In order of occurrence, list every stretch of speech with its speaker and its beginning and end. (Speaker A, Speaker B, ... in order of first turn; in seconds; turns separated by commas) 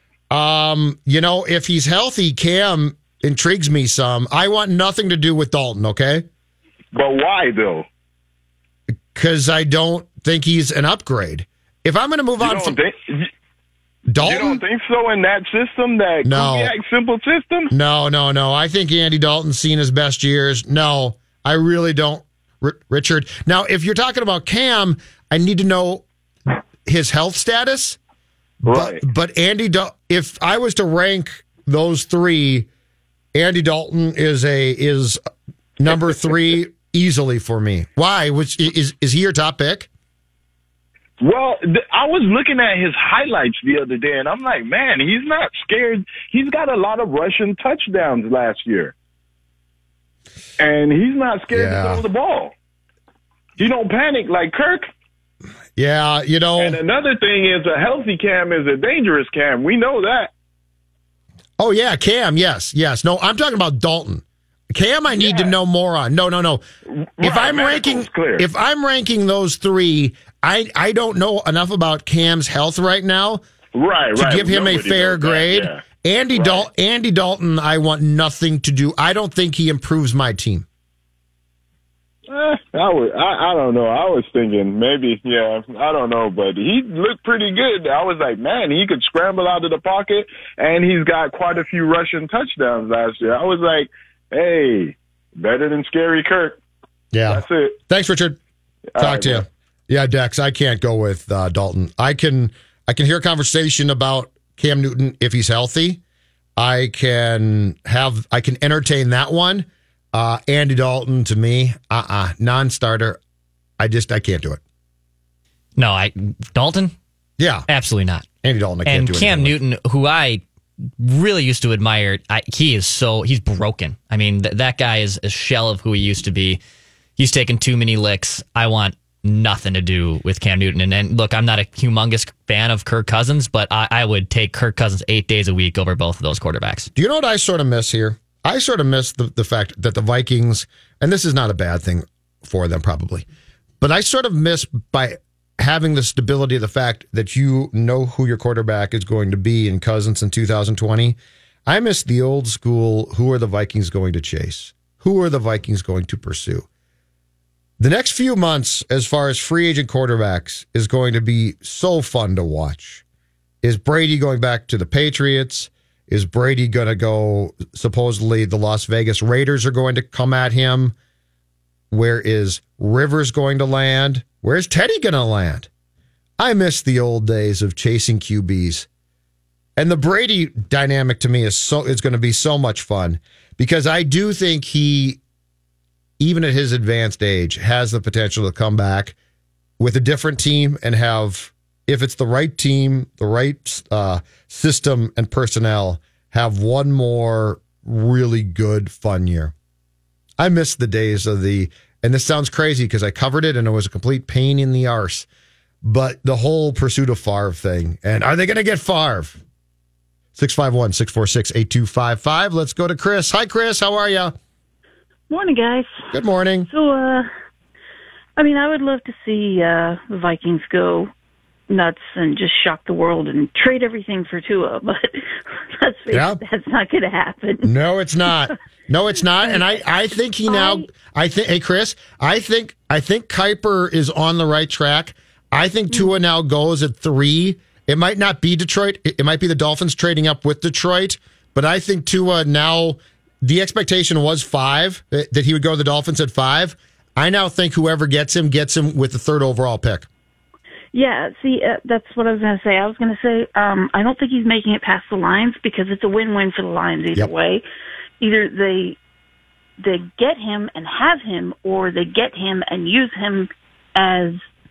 Speaker A: 0.3-6.2, Speaker B: 6.9-7.9, Speaker A: 9.1-12.8, Speaker B: 12.4-13.3, Speaker A: 14.1-14.6, Speaker B: 14.2-17.7, Speaker A: 16.2-16.7, Speaker A: 17.7-26.0, Speaker A: 26.8-28.0, Speaker A: 28.6-32.7, Speaker B: 28.6-29.0, Speaker A: 33.3-35.2, Speaker A: 35.8-39.9, Speaker B: 41.2-48.9, Speaker B: 50.6-52.5, Speaker A: 51.5-52.0, Speaker B: 53.6-54.9, Speaker A: 55.8-56.8, Speaker B: 56.6-60.3, Speaker A: 61.6-66.6, Speaker B: 65.1-65.5, Speaker B: 66.9-68.5, Speaker A: 67.2-73.4, Speaker B: 73.8-75.8, Speaker A: 74.1-80.7, Speaker B: 76.3-76.7, Speaker B: 82.3-96.6, Speaker A: 97.1-98.4, Speaker B: 97.3-97.8, Speaker B: 98.9-99.4, Speaker A: 99.0-106.0, Speaker A: 106.6-113.2, Speaker A: 113.8-114.6, Speaker C: 115.8-116.9, Speaker A: 117.4-117.7, Speaker C: 117.7-118.2, Speaker A: 118.4-119.6, Speaker C: 118.8-120.4, Speaker C: 121.0-126.6, Speaker C: 127.2-136.9, Speaker A: 136.9-143.2, Speaker A: 143.8-156.7, Speaker A: 157.8-163.0, Speaker A: 163.6-170.9, Speaker A: 171.9-175.7, Speaker A: 176.4-178.9, Speaker A: 179.8-185.2, Speaker A: 186.2-189.2, Speaker A: 189.8-199.5, Speaker A: 200.4-205.3, Speaker A: 205.8-209.4, Speaker A: 210.3-214.3, Speaker D: 215.3-216.1, Speaker A: 216.1-216.7, Speaker D: 216.7-217.3, Speaker D: 218.4-221.1, Speaker D: 221.7-227.7, Speaker A: 226.1-226.4, Speaker A: 227.6-250.1, Speaker D: 228.2-228.5, Speaker D: 229.4-229.8, Speaker D: 230.5-230.9, Speaker D: 235.9-236.2, Speaker D: 250.9-257.6, Speaker D: 258.2-259.0, Speaker D: 259.8-264.4